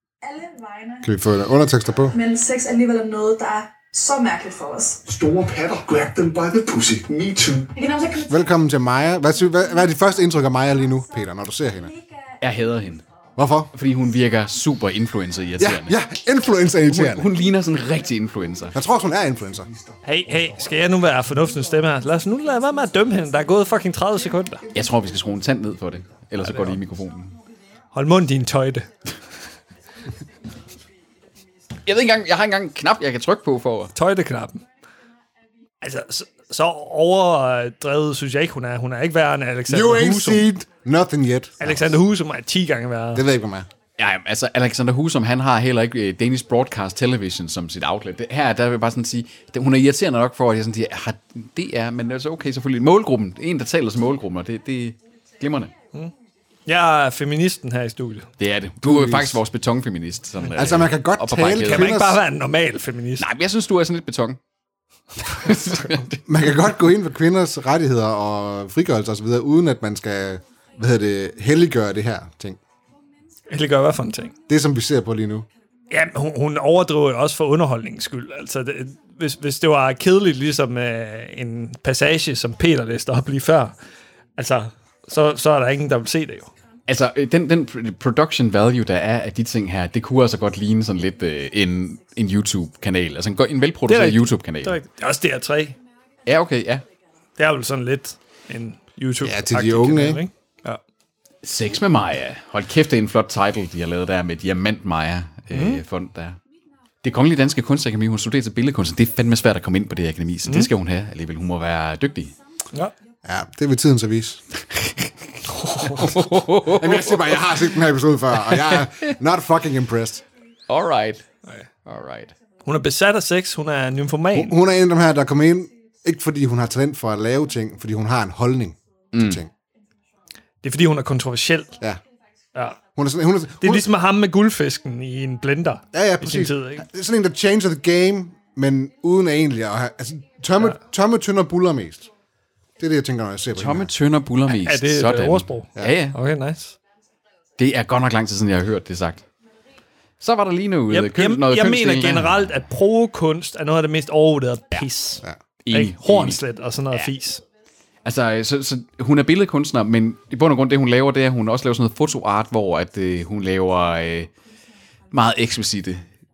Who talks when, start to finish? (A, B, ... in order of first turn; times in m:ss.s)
0:00.2-0:01.0 A
0:01.0-0:02.2 B
0:02.1-0:05.8 A
0:05.2-0:07.5 C
0:07.4-0:08.5 A
0:08.2-0:11.9 B
0:12.4-0:13.0 D
0:13.4-0:13.7 B
0:13.7-0:15.9 D
0:15.6-0:17.2 B
0:16.8-0:18.8 D
0:18.7-0:19.7 B
0:20.0-0:24.6 E
0:24.7-0:27.3 D
0:26.4-0:26.8 E
0:27.9-0:28.9 E
0:31.8-0:33.9 D
0:33.9-0:34.6 E
0:35.8-0:40.5 E
0:39.7-0:41.8 B
0:41.6-0:43.2 E
0:43.1-0:43.7 B
0:44.0-0:55.7 D
0:56.6-0:58.3 E
0:58.4-1:02.0 D
0:58.8-0:59.4 B
1:00.5-1:02.2 B
1:01.6-1:03.2 E
1:03.2-1:04.4 D
1:05.2-1:06.2 D
1:06.2-1:12.6 B
1:13.5-1:14.3 E
1:14.5-1:15.5 B
1:15.9-1:23.7 E
1:24.4-1:26.5 E
1:26.9-1:34.8 D
1:33.9-1:35.8 E
1:36.2-1:36.8 D
1:37.4-1:40.8 E
1:39.2-1:40.2 B
1:41.4-1:46.4 D
1:45.5-1:45.8 E
1:47.0-1:52.3 D
1:53.2-1:54.4 B
1:54.7-1:55.1 D
1:55.5-1:56.0 E
1:55.8-1:57.5 D
1:56.7-2:00.2 B
1:58.5-1:59.0 D
2:00.7-2:01.2 D
2:01.8-2:02.3 D
2:02.6-2:04.6 E
2:04.3-2:09.5 B
2:09.1-2:09.4 D
2:10.6-2:11.8 E
2:13.0-2:13.9 B
2:13.6-2:16.8 E
2:15.9-2:22.1 B
2:22.8-2:23.9 B
2:23.6-2:26.2 D
2:24.5-2:26.8 E
2:27.6-2:29.2 D
2:30.2-2:32.4 D
2:30.9-2:37.4 E
2:35.6-2:36.4 D
2:38.0-2:44.3 D
2:45.1-2:46.0 D